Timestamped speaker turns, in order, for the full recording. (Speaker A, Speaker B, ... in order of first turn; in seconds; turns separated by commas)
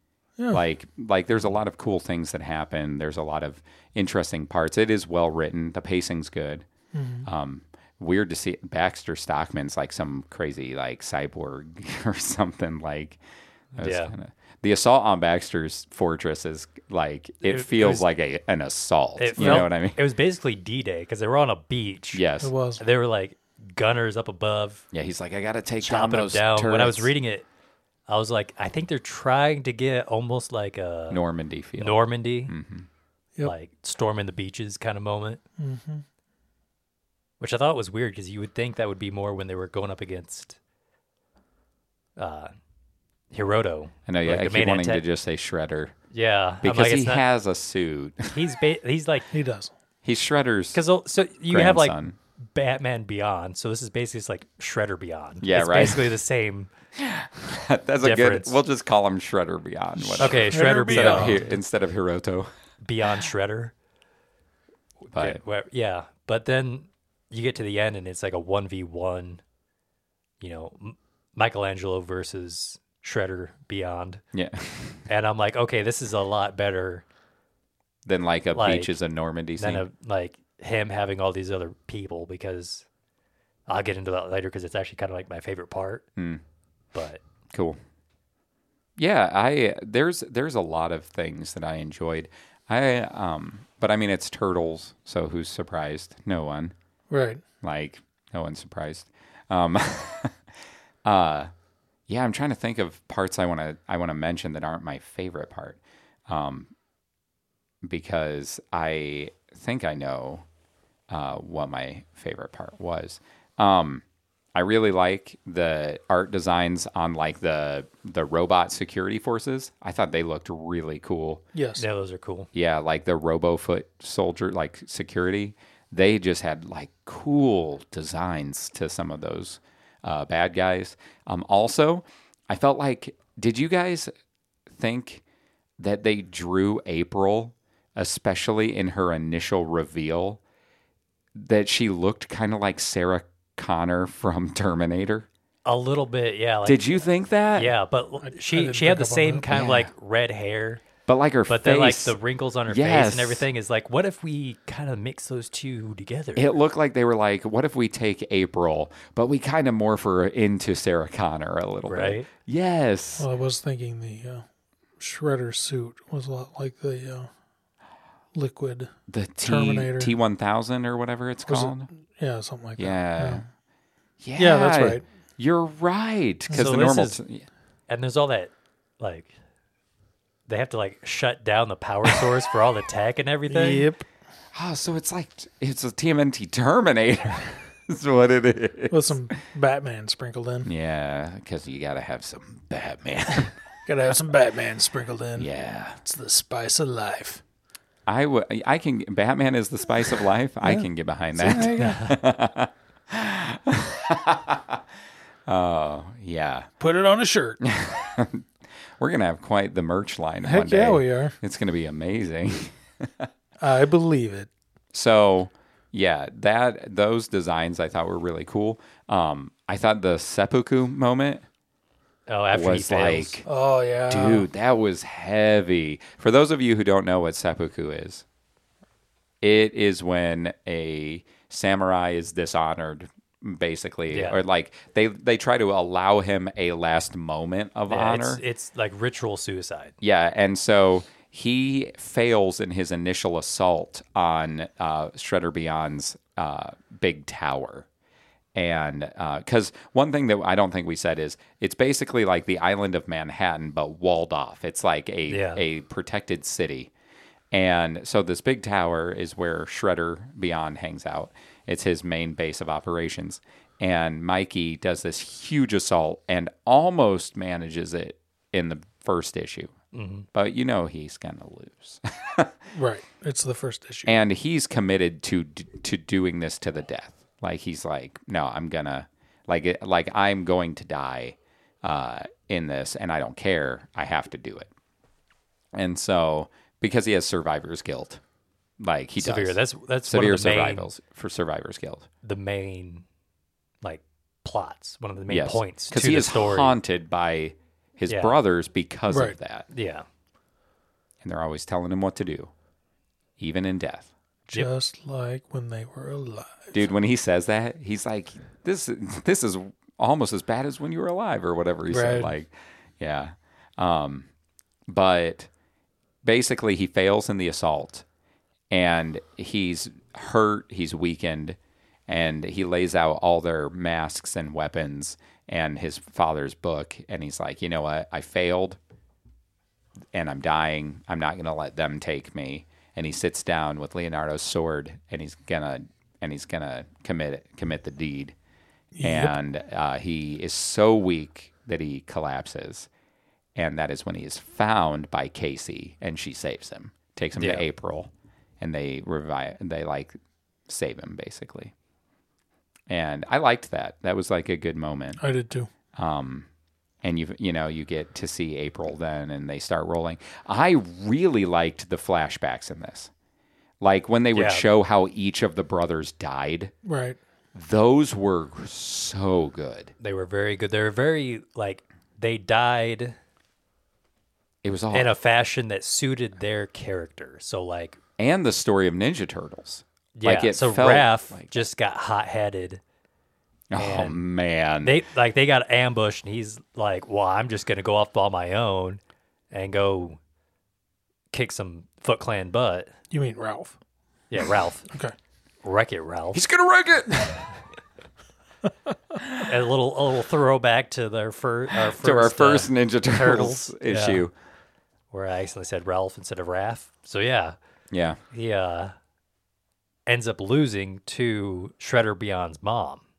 Speaker A: 0.5-6.7, Speaker B: 6.9-7.3, Speaker A: 7.2-13.2, Speaker A: 13.8-20.0, Speaker C: 13.8-14.1, Speaker C: 17.4-18.1, Speaker C: 19.2-22.2, Speaker B: 19.4-19.7, Speaker A: 22.1-22.5, Speaker B: 22.4-22.8, Speaker C: 22.8-24.9, Speaker A: 24.9-27.1, Speaker C: 25.8-27.5, Speaker C: 28.1-31.2, Speaker A: 31.1-32.9, Speaker C: 31.8-32.5, Speaker C: 33.4-35.4, Speaker B: 35.6-36.0, Speaker C: 37.4-40.6, Speaker C: 42.2-42.5, Speaker C: 43.3-45.0, Speaker A: 44.1-46.0, Speaker C: 46.1-47.2, Speaker A: 46.6-48.6, Speaker C: 48.3-49.3, Speaker B: 49.3-49.7, Speaker A: 50.0-50.8, Speaker C: 50.7-52.0, Speaker A: 51.5-52.1, Speaker C: 52.5-56.7, Speaker A: 55.4-56.2, Speaker A: 57.0-62.5, Speaker C: 58.0-58.6, Speaker B: 60.0-61.4, Speaker C: 60.2-61.5, Speaker C: 62.8-63.7, Speaker C: 65.0-69.4, Speaker A: 65.1-65.4, Speaker C: 70.4-74.2, Speaker A: 74.3-75.0, Speaker C: 75.1-77.0, Speaker A: 78.0-79.8, Speaker C: 78.5-78.9, Speaker C: 79.6-82.9, Speaker C: 83.7-86.0, Speaker A: 86.2-86.4, Speaker C: 86.9-87.2, Speaker A: 87.5-87.8, Speaker A: 89.0-96.7, Speaker B: 97.1-97.4, Speaker A: 97.6-100.4, Speaker A: 101.0-101.5, Speaker A: 102.1-106.7, Speaker A: 107.8-110.5, Speaker A: 111.1-114.0, Speaker A: 114.5-121.4, Speaker B: 121.5-121.8, Speaker C: 121.8-122.5, Speaker A: 122.5-134.1, Speaker A: 134.7-135.2, Speaker A: 135.8-140.4, Speaker A: 141.3-145.3, Speaker C: 145.7-147.0, Speaker A: 146.7-147.7, Speaker C: 147.6-150.8, Speaker B: 148.2-149.7, Speaker A: 149.5-149.9, Speaker A: 151.1-152.2, Speaker C: 151.5-156.4, Speaker A: 152.7-153.5, Speaker A: 156.3-163.3, Speaker C: 161.9-162.3, Speaker B: 163.2-164.4, Speaker B: 165.0-167.3, Speaker B: 168.3-168.9, Speaker A: 169.1-171.9, Speaker B: 169.4-170.1, Speaker B: 171.5-173.4, Speaker A: 172.8-173.5, Speaker A: 174.2-177.5, Speaker B: 174.4-175.1, Speaker C: 176.5-177.2, Speaker C: 177.9-179.3, Speaker C: 180.5-183.9, Speaker B: 183.5-184.1, Speaker A: 184.5-189.2, Speaker B: 188.9-190.7, Speaker A: 190.7-193.5, Speaker B: 193.9-197.4, Speaker A: 195.4-196.0, Speaker A: 198.1-204.8, Speaker B: 200.6-202.0, Speaker C: 201.7-202.2, Speaker A: 205.5-206.7, Speaker B: 206.8-207.6, Speaker A: 207.6-208.5, Speaker A: 209.0-213.3, Speaker B: 210.4-211.4, Speaker B: 213.6-214.5, Speaker A: 214.9-221.4, Speaker C: 222.3-223.4, Speaker A: 222.5-223.5, Speaker B: 223.5-224.5, Speaker A: 224.1-228.2, Speaker A: 229.4-238.4, Speaker C: 234.1-234.4, Speaker C: 237.9-239.9, Speaker A: 240.0-247.9, Speaker A: 248.6-256.9, Speaker C: 255.3-255.6, Speaker A: 257.5-269.7, Speaker C: 269.9-270.3, Speaker A: 270.3-272.5, Speaker B: 272.7-274.2, Speaker A: 274.1-284.7, Speaker A: 285.8-288.2, Speaker A: 288.8-292.1, Speaker C: 289.2-290.9, Speaker C: 292.2-293.1, Speaker C: 293.8-296.8, Speaker A: 295.3-299.7, Speaker C: 298.1-298.4, Speaker B: 299.1-299.4, Speaker C: 299.7-300.1, Speaker A: 301.2-302.5, Speaker A: 303.4-304.1, Speaker B: 304.5-306.7, Speaker A: 306.7-314.3, Speaker B: 311.9-312.3, Speaker A: 314.9-315.5, Speaker A: 316.2-318.1, Speaker A: 318.7-321.6, Speaker A: 322.1-328.8, Speaker A: 330.1-338.4, Speaker B: 338.9-339.4, Speaker A: 339.0-342.9, Speaker A: 343.6-350.2, Speaker C: 347.4-347.6, Speaker A: 350.7-351.7, Speaker A: 352.9-355.2, Speaker B: 355.2-355.7, Speaker A: 356.0-356.5, Speaker A: 357.0-363.1, Speaker A: 363.8-366.7, Speaker C: 364.3-364.7, Speaker B: 366.9-367.2, Speaker A: 367.6-369.9, Speaker C: 370.0-373.1, Speaker A: 374.6-375.1, Speaker C: 374.9-378.0, Speaker A: 378.2-381.7, Speaker C: 380.2-382.8, Speaker A: 383.7-385.0, Speaker C: 383.8-384.2, Speaker C: 384.8-389.0, Speaker C: 389.5-390.2, Speaker C: 391.3-392.9, Speaker B: 393.1-393.8, Speaker C: 394.3-394.9, Speaker C: 395.6-396.4, Speaker A: 396.3-397.4, Speaker C: 399.4-404.2, Speaker A: 401.9-404.3, Speaker C: 405.1-407.6, Speaker A: 407.9-408.2, Speaker C: 408.3-408.9, Speaker C: 410.1-413.0